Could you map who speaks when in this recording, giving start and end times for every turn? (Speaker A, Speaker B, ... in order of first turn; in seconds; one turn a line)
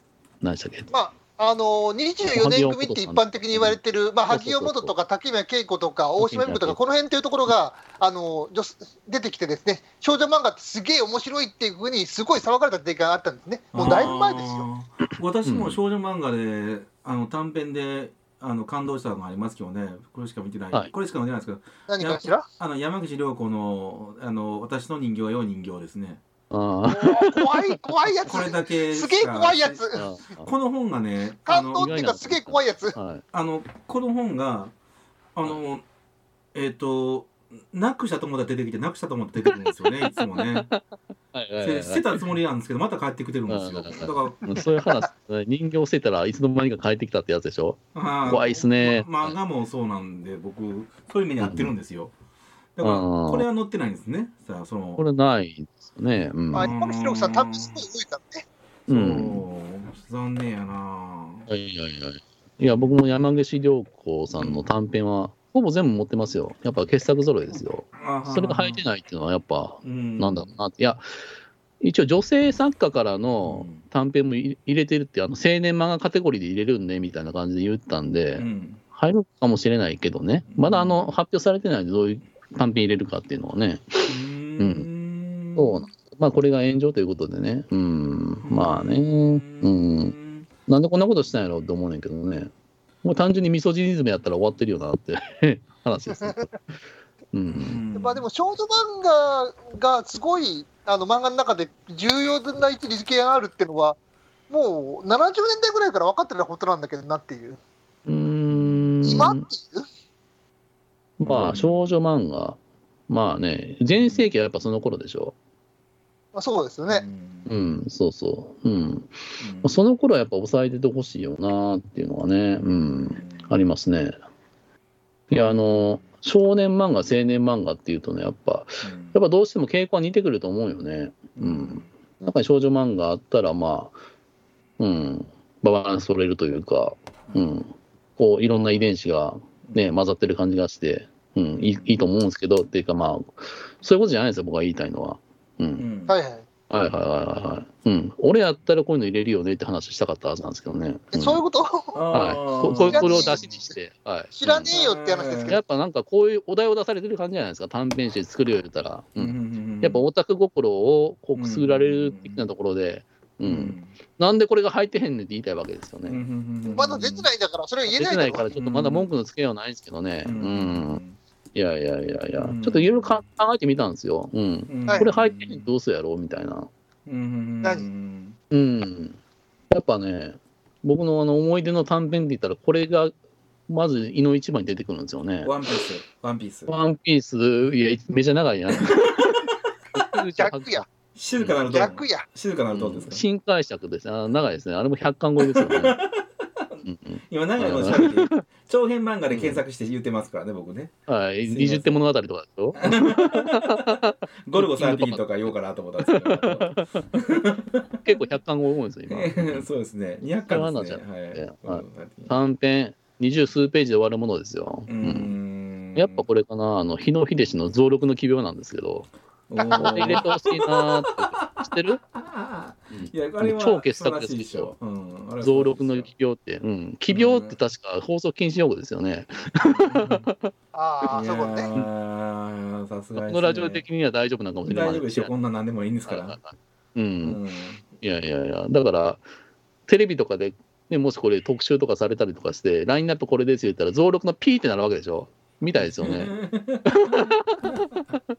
Speaker A: 0.4-0.9
Speaker B: 0.9-14.7
Speaker A: 2.3-4.9
Speaker A: 6.2-6.8
Speaker C: 13.7-26.2
Speaker A: 13.8-14.1
Speaker A: 15.4-15.8
Speaker B: 21.9-22.4
Speaker A: 26.5-27.8
Speaker B: 26.9-30.1
Speaker C: 28.2-29.9
Speaker A: 29.9-30.5
Speaker C: 30.4-31.9
Speaker B: 31.4-33.0
Speaker A: 31.6-33.2
Speaker C: 33.3-34.7
Speaker C: 35.3-35.8
Speaker C: 36.5-40.7
Speaker A: 39.5-40.8
Speaker A: 41.3-42.2
Speaker C: 41.6-44.5
Speaker A: 43.5-49.4
Speaker C: 47.9-52.1
Speaker A: 51.4-51.7
Speaker C: 52.8-55.0
Speaker A: 52.8-53.5
Speaker A: 55.0-56.7
Speaker B: 56.5-58.4
Speaker C: 56.5-57.8
Speaker C: 58.9-61.5
Speaker A: 58.9-59.4
Speaker A: 61.5-71.0
Speaker C: 64.3-64.6
Speaker C: 67.9-68.8
Speaker C: 69.8-70.5
Speaker A: 71.8-84.0
Speaker C: 73.4-73.8
Speaker C: 78.3-78.8
Speaker C: 80.5-81.1
Speaker C: 84.0-85.8
Speaker A: 84.6-84.9
Speaker A: 85.5-90.2
Speaker C: 88.4-90.5
Speaker A: 90.7-92.5
Speaker A: 93.0-96.6
Speaker B: 96.2-96.4
Speaker A: 97.3-97.8
Speaker C: 97.5-98.2
Speaker B: 97.9-104.0
Speaker B: 104.5-107.6
Speaker A: 108.0-109.5
Speaker C: 108.5-108.9
Speaker B: 109.0-109.8
Speaker A: 111.2-112.6
Speaker C: 111.2-111.9
Speaker A: 113.1-115.3
Speaker C: 114.0-114.3
Speaker B: 116.3-117.0
Speaker C: 116.9-117.5
Speaker A: 117.5-124.1
Speaker C: 119.4-119.8
Speaker C: 123.1-123.5
Speaker A: 125.3-133.9
Speaker C: 125.4-126.0
Speaker C: 128.8-129.2
Speaker C: 131.3-131.9
Speaker A: 134.8-145.8
Speaker C: 141.5-142.1
Speaker C: 145.8-146.1
Speaker B: 146.1-146.4
Speaker A: 146.7-151.4
Speaker B: 151.1-153.6
Speaker C: 151.9-153.4
Speaker A: 152.1-154.7
Speaker B: 154.3-155.6
Speaker C: 154.7-155.6
Speaker A: 155.5-166.2
Speaker C: 159.2-160.0
Speaker C: 161.3-162.5
Speaker C: 163.4-163.9
Speaker C: 166.0-167.3
Speaker B: 166.6-168.4
Speaker A: 167.9-171.0
Speaker C: 168.5-169.1
Speaker C: 170.2-171.2
Speaker A: 171.5-176.7
Speaker C: 172.4-173.2
Speaker C: 174.7-175.7
Speaker C: 177.1-178.3
Speaker A: 178.5-179.2
Speaker A: 179.7-183.1
Speaker A: 183.7-185.5
Speaker C: 185.4-186.7
Speaker A: 186.7-191.6
Speaker C: 188.7-189.3
Speaker B: 190.4-190.8
Speaker C: 191.1-193.2
Speaker B: 191.7-192.3
Speaker A: 192.7-196.0
Speaker C: 195.4-200.9
Speaker A: 196.8-198.4
Speaker A: 199.3-199.6
Speaker A: 201.1-205.4
Speaker C: 201.4-201.9
Speaker C: 202.8-208.2
Speaker A: 206.1-207.2
Speaker A: 208.0-209.7
Speaker C: 209.1-212.4
Speaker A: 210.4-215.3
Speaker C: 214.9-216.2
Speaker A: 215.9-219.1
Speaker C: 219.5-226.1
Speaker A: 219.7-222.0
Speaker A: 222.9-224.7
Speaker A: 225.4-230.5
Speaker C: 227.1-227.6
Speaker C: 229.6-230.3
Speaker B: 230.7-231.7
Speaker C: 231.1-233.8
Speaker A: 233.2-235.3
Speaker C: 234.7-236.4
Speaker A: 236.1-237.4
Speaker C: 237.2-237.8
Speaker A: 238.0-239.2
Speaker A: 239.9-248.2
Speaker C: 245.8-248.0